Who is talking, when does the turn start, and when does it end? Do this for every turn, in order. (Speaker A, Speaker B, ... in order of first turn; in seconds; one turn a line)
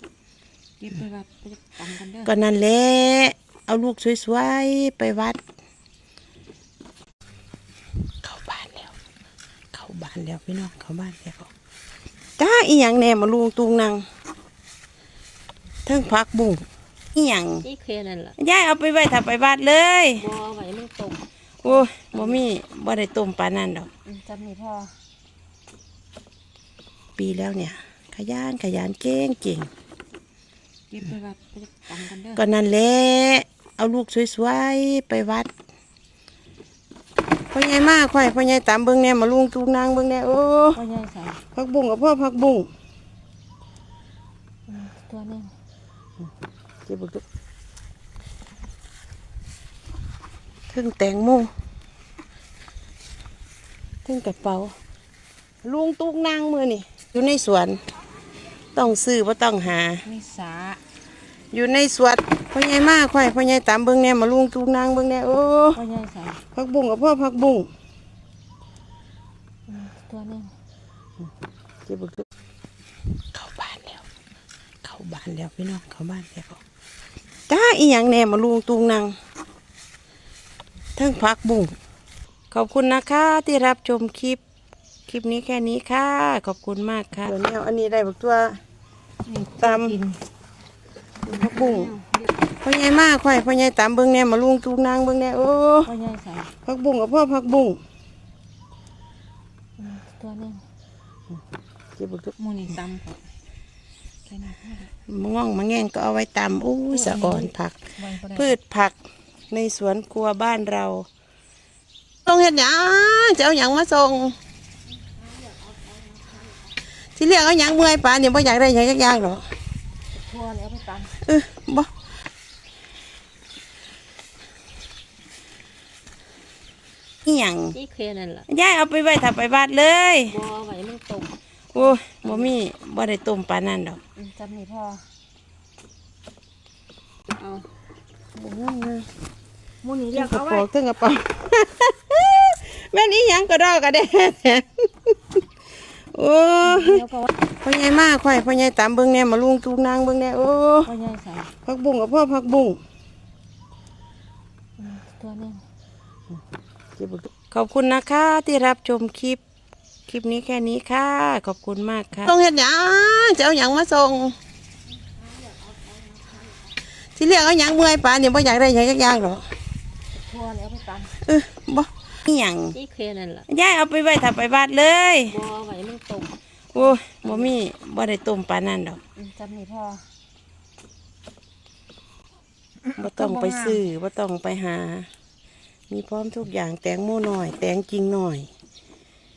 Speaker A: 0.8-2.3
Speaker B: 2.3-5.4
Speaker B: 8.2-8.9
Speaker B: 9.7-11.5
Speaker B: 12.4-14.1
Speaker B: 15.9-17.6
Speaker A: 17.6-18.4
Speaker B: 18.4-20.2
Speaker A: 20.2-22.4
Speaker B: 21.6-23.9
Speaker A: 24.1-24.9
Speaker B: 27.2-29.7
Speaker A: 30.9-32.4
Speaker B: 32.4-35.5
Speaker B: 37.5-40.8
Speaker A: 40.7-41.4
Speaker B: 41.5-42.7
Speaker A: 44.7-45.5
Speaker B: 46.9-47.2
Speaker B: 50.7-51.5
Speaker B: 54.0-54.7
Speaker B: 55.6-57.8
Speaker B: 58.8-60.0
Speaker A: 60.0-60.8
Speaker B: 61.5-65.8
Speaker A: 65.8-66.4
Speaker B: 66.5-67.7
Speaker A: 69.7-70.5
Speaker B: 71.9-72.2
Speaker B: 73.3-74.0
Speaker B: 74.8-76.6
Speaker B: 77.5-79.2
Speaker B: 81.0-81.8
Speaker B: 82.5-84.4
Speaker B: 85.1-88.6
Speaker A: 89.2-90.2
Speaker B: 89.6-90.0
Speaker A: 91.3-92.3
Speaker B: 91.3-91.9
Speaker B: 92.6-95.9
Speaker A: 95.8-96.5
Speaker B: 96.7-97.8
Speaker A: 99.8-100.6
Speaker B: 102.0-102.3
Speaker A: 102.4-103.2
Speaker A: 104.3-104.9
Speaker B: 105.1-107.8
Speaker A: 106.9-108.5
Speaker B: 108.3-109.0
Speaker B: 109.5-111.1
Speaker B: 112.3-114.4
Speaker A: 115.3-116.5
Speaker B: 117.2-119.5
Speaker A: 120.2-121.1
Speaker B: 121.2-121.9
Speaker B: 127.2-127.8
Speaker A: 127.7-128.5
Speaker B: 128.5-130.3
Speaker A: 130.3-132.5
Speaker B: 131.7-134.0
Speaker A: 134.2-135.1
Speaker A: 137.3-137.7
Speaker B: 138.4-139.1
Speaker A: 139.8-140.7
Speaker B: 140.1-145.4
Speaker B: 146.1-147.1
Speaker A: 146.6-147.3
Speaker B: 147.6-150.9
Speaker A: 150.8-151.5
Speaker B: 151.7-152.8
Speaker A: 154.8-155.6
Speaker B: 157.0-159.4
Speaker B: 160.1-164.4
Speaker A: 165.2-166.7
Speaker B: 167.2-169.5
Speaker A: 170.2-171.1
Speaker B: 171.2-172.8
Speaker A: 172.7-173.5
Speaker B: 173.5-175.3
Speaker A: 175.3-177.5
Speaker B: 176.7-179.0
Speaker A: 179.2-180.1
Speaker A: 182.9-183.8
Speaker B: 183.0-185.1
Speaker B: 185.9-188.5